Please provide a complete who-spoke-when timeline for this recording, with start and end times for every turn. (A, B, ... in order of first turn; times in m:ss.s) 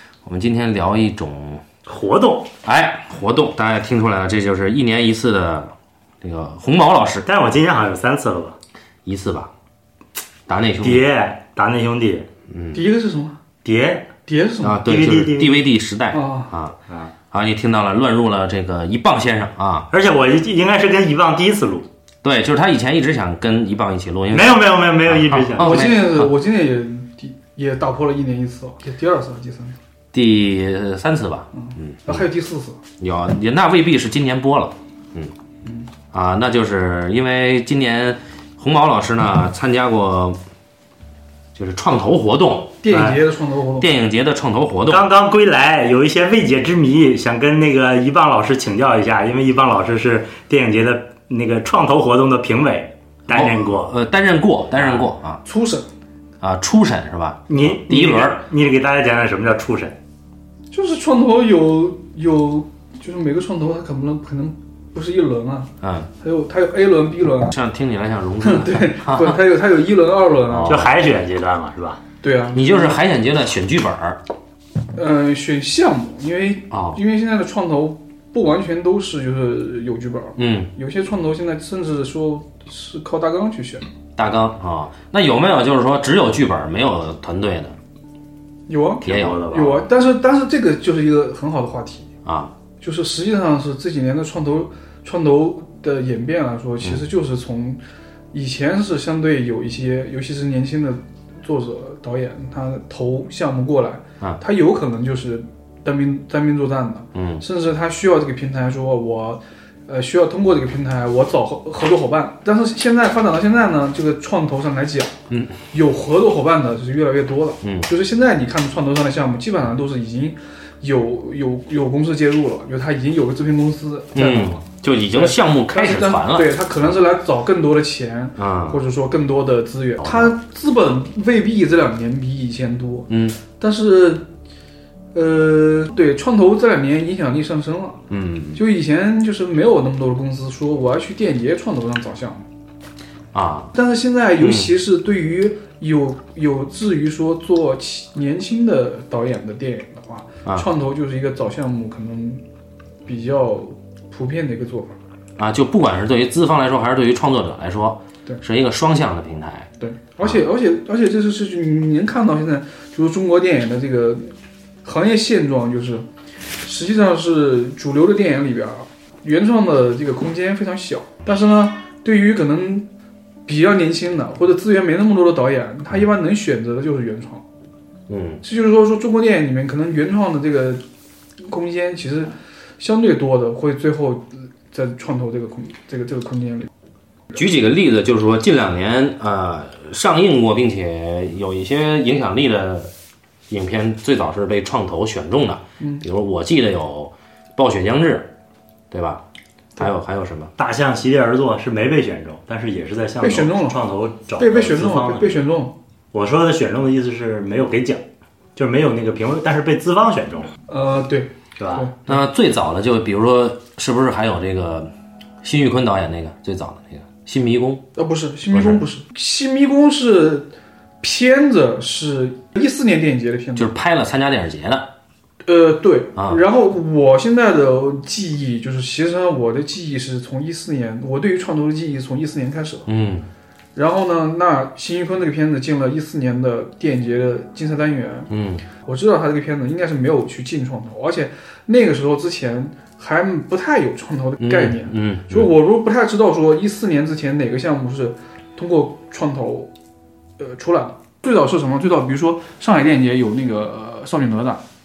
0:00.2-0:01.6 A
0:01.9-0:02.5 B
0:02.6-0:07.3 A
0:07.2-0:08.6 B
0:09.0-0:09.5 A
0:10.5-0:11.0 A
0:10.8-0:12.3 B
0:12.5-0:12.8 A
0:12.7-0:13.4 C
0:13.6-0:14.1 B
0:14.3-0:14.8 C
0:14.6-0:16.8 A
0:14.8-0:15.7 B
0:16.1-0:16.5 C
0:16.9-0:17.1 B
0:17.3-0:19.9 A
0:19.9-0:21.9 B
0:22.2-0:26.3 A
0:24.3-0:25.9 B
0:25.6-0:29.8 C
0:30.1-0:32.3 A
0:31.6-0:32.8 C
0:33.0-0:35.3 A
0:36.1-0:40.4 A
0:41.6-0:43.2 A
0:42.8-0:43.9 C
0:42.9-0:43.2 B
0:43.8-0:45.1 A
0:44.9-0:54.0 B
0:53.3-0:55.4 A
0:54.8-0:55.1 B
0:55.4-0:55.9 C
0:56.4-0:58.4 A
0:57.5-1:00.0 B
1:00.7-1:07.6 C
1:05.8-1:06.1 A
1:07.5-1:09.4 A
1:08.4-1:10.8 C
1:10.5-1:10.9 A
1:10.7-1:12.0 B
1:12.2-1:13.0 C
1:12.5-1:14.2 A
1:15.0-1:23.9 C
1:16.7-1:17.0 A
1:20.4-1:20.7 A
1:24.2-1:27.8 A
1:28.7-1:32.1 C
1:29.0-1:29.7 B
1:29.1-1:29.8 A
1:32.2-1:32.5 A
1:32.8-1:37.8 C
1:38.3-1:55.2 C
1:47.2-1:47.4 A
1:55.3-1:55.6 A
1:55.7-2:04.6 C
1:57.6-1:57.9 A
2:04.2-2:06.9 A
2:05.1-2:14.3 C
2:08.4-2:08.8 A
2:10.0-2:10.3 A
2:13.1-2:13.4 A
2:15.2-2:18.0 C
2:18.1-2:18.6 A
2:18.6-2:22.5 C
2:23.3-2:23.7 A
2:23.7-2:32.4 C
2:24.4-2:24.7 A
2:33.1-2:35.0 C
2:35.4-2:39.7 A
2:39.8-2:46.1 C
2:46.6-2:52.9 C
2:53.5-2:57.4 C
2:58.1-2:58.4 A
2:58.4-3:00.8 C
3:01.4-3:06.7 C
3:07.3-3:12.9 A
3:13.5-3:18.3 A
3:18.9-3:19.2 A
3:19.8-3:20.5 A
3:20.6-3:25.5 B
3:23.2-3:23.8 C
3:24.4-3:25.8 C
3:26.1-3:28.0 B
3:28.6-3:30.5 B
3:30.7-3:32.2 C
3:31.6-3:31.9 B
3:32.1-3:34.9 A
3:35.4-3:37.8 A
3:38.0-3:43.7 C
3:38.5-3:38.8 A
3:43.6-3:44.9 A
3:45.4-3:52.9 C
3:46.2-3:46.4 A
3:52.9-3:53.3 A
3:53.8-3:58.3 C
3:58.3-3:58.6 A
3:58.8-4:09.7 C
4:04.4-4:05.5 A
4:10.4-4:14.6 C